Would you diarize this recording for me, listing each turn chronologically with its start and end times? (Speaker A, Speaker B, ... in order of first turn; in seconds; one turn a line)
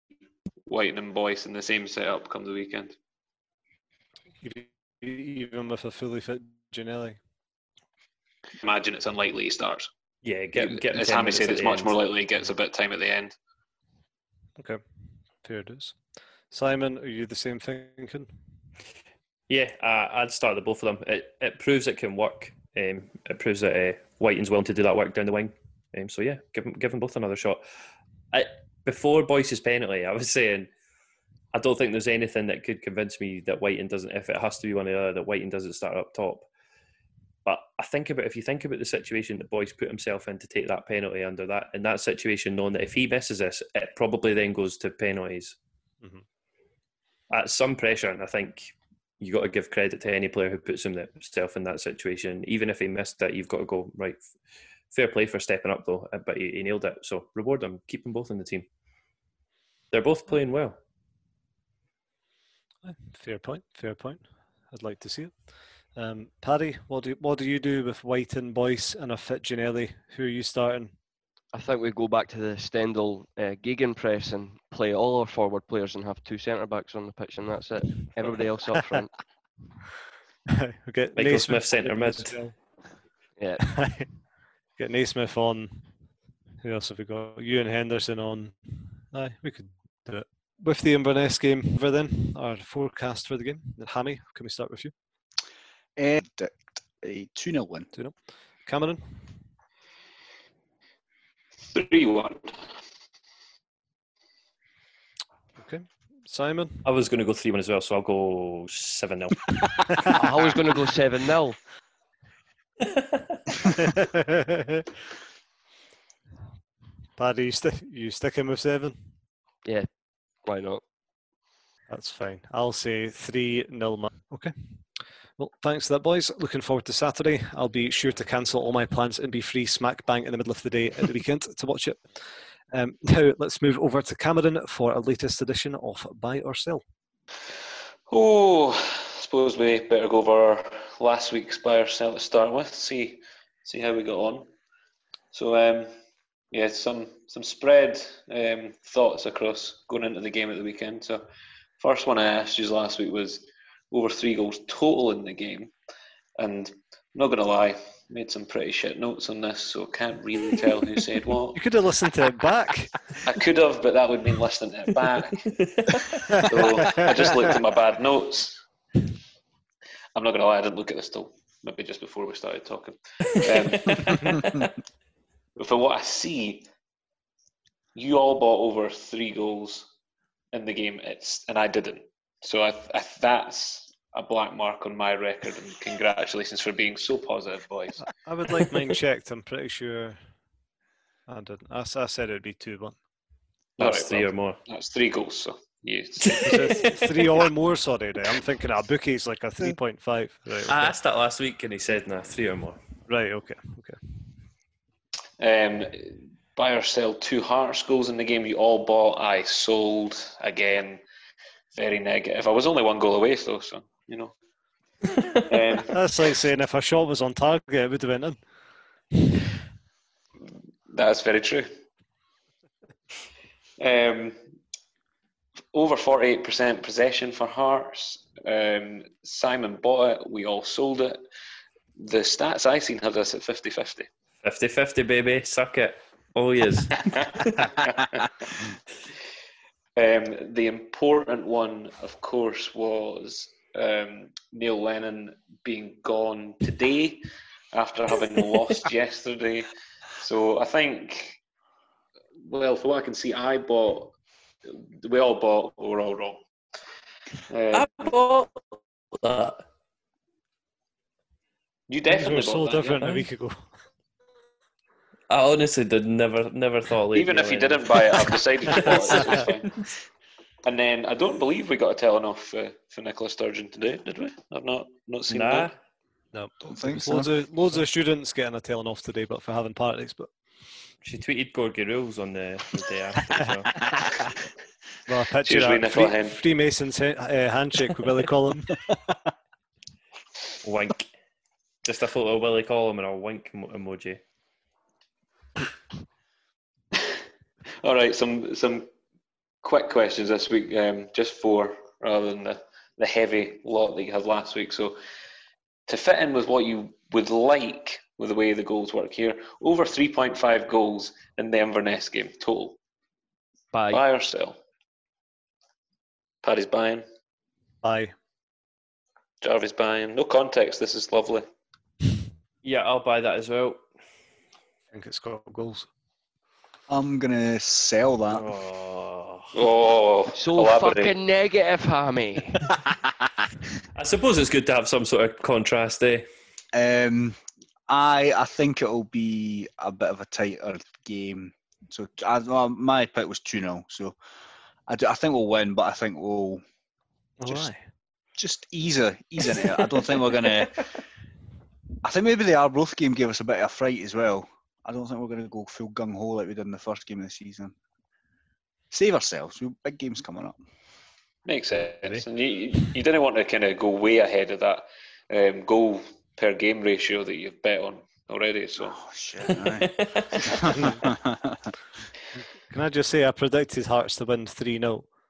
Speaker A: 0.7-3.0
Speaker B: 4.4-7.2
Speaker A: 8.6-9.9
Speaker C: 10.2-12.0
Speaker A: 10.6-13.3
Speaker B: 15.4-16.0
Speaker B: 16.5-18.3
Speaker C: 19.5-27.6
Speaker C: 28.3-30.7
Speaker C: 31.5-36.5
Speaker C: 37.5-45.6
Speaker C: 47.3-54.2
Speaker C: 54.9-58.7
Speaker C: 59.9-60.8
Speaker B: 62.8-71.0
Speaker D: 71.5-79.2
Speaker B: 80.6-82.6
Speaker C: 81.2-82.4
Speaker D: 83.4-84.0
Speaker B: 83.7-84.1
Speaker B: 84.8-85.9
Speaker B: 86.6-94.9
Speaker E: 96.0-97.9
Speaker B: 97.9-99.4
Speaker A: 101.7-102.7
Speaker B: 105.6-106.8
Speaker C: 106.8-110.0
Speaker D: 110.1-111.6
Speaker B: 113.8-114.8
Speaker B: 117.2-119.1
Speaker D: 120.5-120.8
Speaker B: 121.9-136.8
Speaker A: 138.1-144.5
Speaker A: 145.3-146.0
Speaker A: 146.5-151.3
Speaker A: 151.8-155.7
Speaker A: 156.4-161.6
Speaker B: 161.5-162.9
Speaker A: 163.2-165.5
Speaker C: 165.5-166.2
Speaker B: 166.3-167.0
Speaker A: 166.3-168.7
Speaker A: 170.2-174.4
Speaker C: 173.4-174.6
Speaker A: 175.6-176.7
Speaker A: 177.9-179.9
Speaker A: 180.5-188.1
Speaker B: 188.2-190.3
Speaker B: 191.3-193.0
Speaker C: 193.8-194.6
Speaker A: 193.8-196.6
Speaker C: 196.2-197.3
Speaker B: 196.4-201.0
Speaker C: 200.7-202.8
Speaker B: 203.1-204.0
Speaker A: 205.4-211.0
Speaker A: 211.7-214.3
Speaker A: 215.5-216.0
Speaker B: 215.9-218.4
Speaker A: 220.9-221.7
Speaker A: 223.8-224.4
Speaker A: 225.7-231.2
Speaker A: 232.0-234.1
Speaker C: 234.4-237.8
Speaker A: 237.0-238.3
Speaker A: 240.0-249.7
Speaker A: 250.2-251.4
Speaker A: 252.4-256.5
Speaker A: 257.5-258.1
Speaker C: 257.7-259.6
Speaker A: 261.9-263.3
Speaker B: 262.1-263.7
Speaker C: 265.3-269.8
Speaker A: 267.1-269.7
Speaker A: 270.6-275.7
Speaker C: 275.3-275.7
Speaker B: 276.3-280.3
Speaker E: 276.6-277.4
Speaker C: 281.0-283.8
Speaker B: 285.1-288.7
Speaker A: 285.4-286.4
Speaker C: 290.6-291.1
Speaker C: 291.8-294.2
Speaker A: 297.8-298.9
Speaker A: 299.6-305.0
Speaker A: 305.9-312.8
Speaker D: 313.7-314.0
Speaker A: 313.9-314.6
Speaker A: 316.4-317.1
Speaker B: 317.8-318.1
Speaker A: 319.4-321.5
Speaker C: 322.6-323.8
Speaker B: 324.9-325.9
Speaker E: 326.9-328.5
Speaker C: 328.3-329.5
Speaker A: 329.5-331.1
Speaker D: 330.4-332.8
Speaker C: 333.9-336.3
Speaker E: 336.7-344.1
Speaker E: 344.9-346.6
Speaker B: 347.4-347.8
Speaker E: 348.4-350.9
Speaker E: 352.0-357.8
Speaker E: 358.9-360.6
Speaker A: 361.5-369.0
Speaker E: 368.9-371.7
Speaker C: 369.5-370.3
Speaker B: 370.7-371.0
Speaker B: 372.7-375.1